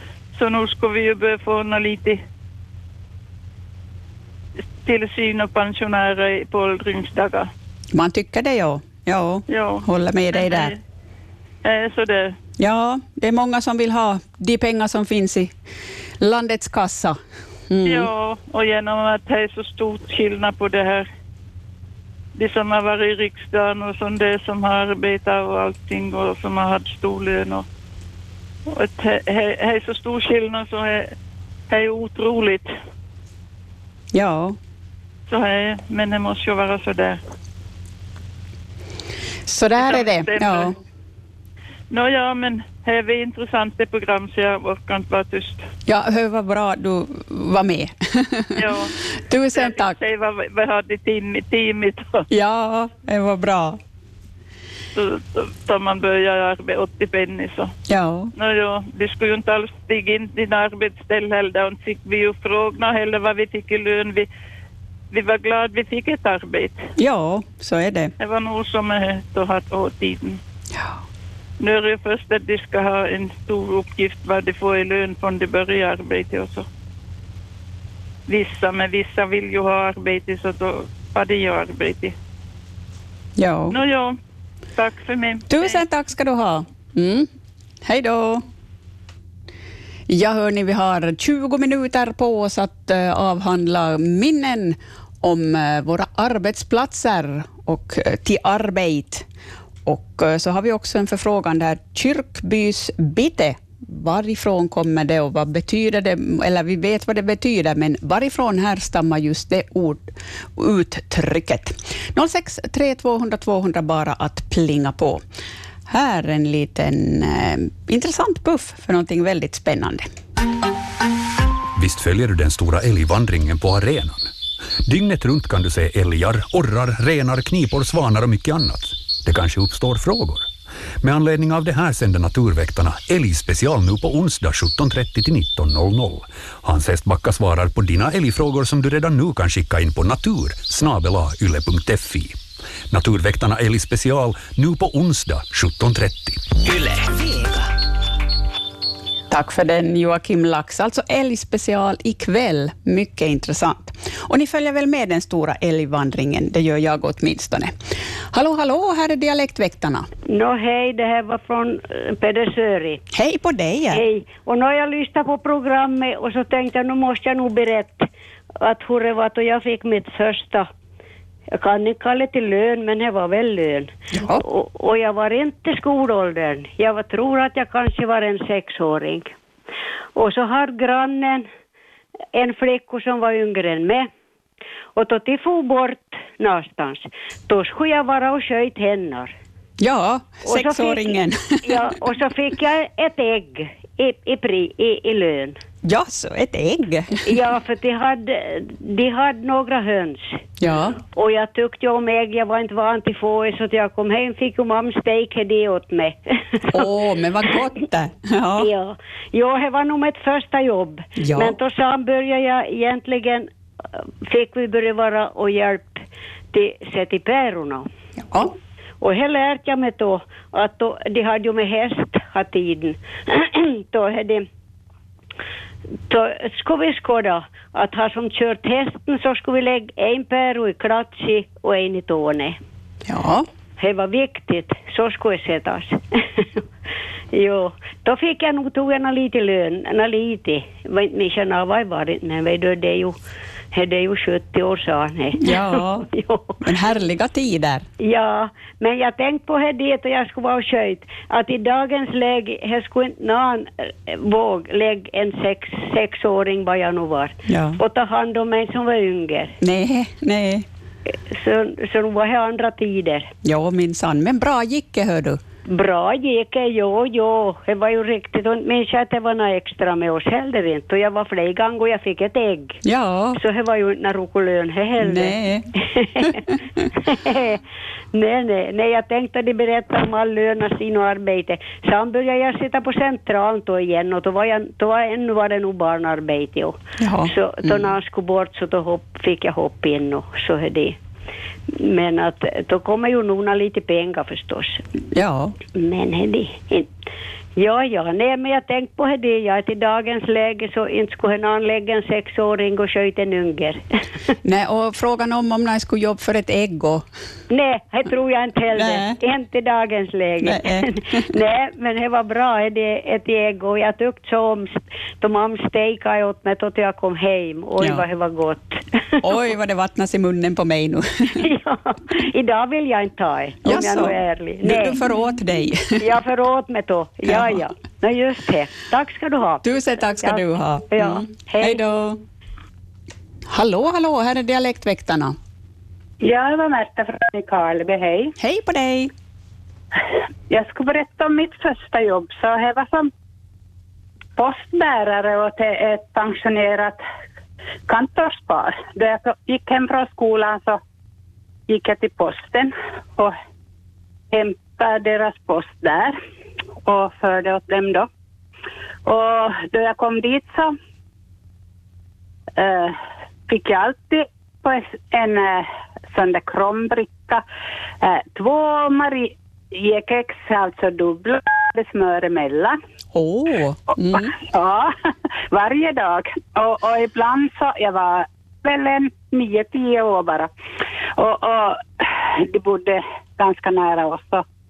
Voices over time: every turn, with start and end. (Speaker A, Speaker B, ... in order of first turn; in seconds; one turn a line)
Speaker A: 0.3-2.2
Speaker A: 4.8-7.5
Speaker B: 7.9-10.8
Speaker A: 9.5-10.8
Speaker A: 11.6-12.4
Speaker B: 12.6-15.5
Speaker B: 16.2-17.2
Speaker B: 17.7-18.1
Speaker A: 17.9-21.1
Speaker A: 22.4-27.6
Speaker A: 28.7-31.1
Speaker A: 31.7-32.7
Speaker B: 34.1-34.6
Speaker A: 35.3-37.2
Speaker B: 39.5-40.8
Speaker A: 39.8-40.7
Speaker A: 41.9-45.6
Speaker B: 45.9-50.0
Speaker A: 48.6-48.9
Speaker A: 49.5-52.3
Speaker B: 52.3-53.8
Speaker A: 54.9-57.7
Speaker B: 57.9-58.3
Speaker A: 58.4-64.3
Speaker A: 65.1-66.8
Speaker B: 67.0-68.1
Speaker A: 68.2-70.4
Speaker A: 71.6-76.7
Speaker A: 78.3-82.1
Speaker B: 83.4-83.8
Speaker A: 83.7-84.2
Speaker A: 84.8-85.8
Speaker B: 85.5-87.3
Speaker B: 87.8-88.4
Speaker B: 90.1-99.3
Speaker B: 99.9-115.2
Speaker B: 115.9-120.1
Speaker C: 121.8-124.3
Speaker C: 124.9-130.5
Speaker C: 131.0-142.4
Speaker C: 142.9-146.6
Speaker B: 146.7-147.5
Speaker B: 149.3-157.7
Speaker B: 158.3-160.1
Speaker D: 160.3-163.0
Speaker B: 163.1-164.0
Speaker D: 163.9-168.1
Speaker D: 168.6-170.7
Speaker D: 171.5-179.3
Speaker B: 174.1-174.4
Speaker D: 180.2-181.5
Speaker D: 182.3-184.1
Speaker D: 184.9-189.3
Speaker B: 189.8-191.9
Speaker D: 190.4-195.6
Speaker B: 195.8-197.3
Speaker D: 197.2-200.4
Speaker B: 200.6-201.0
Speaker D: 201.1-206.2
Speaker B: 206.7-208.7
Speaker D: 208.6-213.5
Speaker B: 211.2-211.6
Speaker D: 214.2-216.0
Speaker D: 216.5-217.9
Speaker B: 218.2-218.5
Speaker D: 219.0-224.5
Speaker D: 226.1-232.6
Speaker B: 233.1-233.4
Speaker D: 233.8-236.6
Speaker D: 237.3-243.2
Speaker D: 243.7-246.6
Speaker B: 245.4-246.1
Speaker B: 246.6-247.9
Speaker D: 248.0-259.6
Speaker B: 257.5-257.8
Speaker B: 259.6-260.6
Speaker D: 261.3-263.3
Speaker B: 263.4-265.4
Speaker D: 265.7-272.8
Speaker B: 272.8-273.4
Speaker D: 273.4-276.4
Speaker B: 275.0-276.4
Speaker D: 277.1-277.6
Speaker D: 278.1-291.0
Speaker B: 287.0-287.9
Speaker D: 291.7-294.8
Speaker B: 295.1-295.5
Speaker D: 295.7-296.9
Speaker D: 297.6-303.8
Speaker B: 304.4-307.1
Speaker D: 307.5-319.4
Speaker B: 308.7-309.2
Speaker B: 310.4-311.3
Speaker B: 317.8-318.1
Speaker B: 319.2-321.4
Speaker D: 321.4-331.9
Speaker B: 323.6-325.9
Speaker B: 327.3-327.6
Speaker B: 329.6-332.2
Speaker B: 333.5-335.4
Speaker E: 336.2-338.3
Speaker B: 338.4-339.1
Speaker E: 340.5-343.1
Speaker E: 344.4-347.0
Speaker E: 347.9-350.8
Speaker E: 351.7-353.3
Speaker E: 354.3-356.1
Speaker E: 356.9-358.1
Speaker E: 359.1-360.7
Speaker E: 362.6-363.0
Speaker E: 363.5-367.4
Speaker E: 368.0-372.8
Speaker B: 373.1-374.3
Speaker E: 374.1-374.9
Speaker E: 375.5-380.5
Speaker E: 381.2-384.4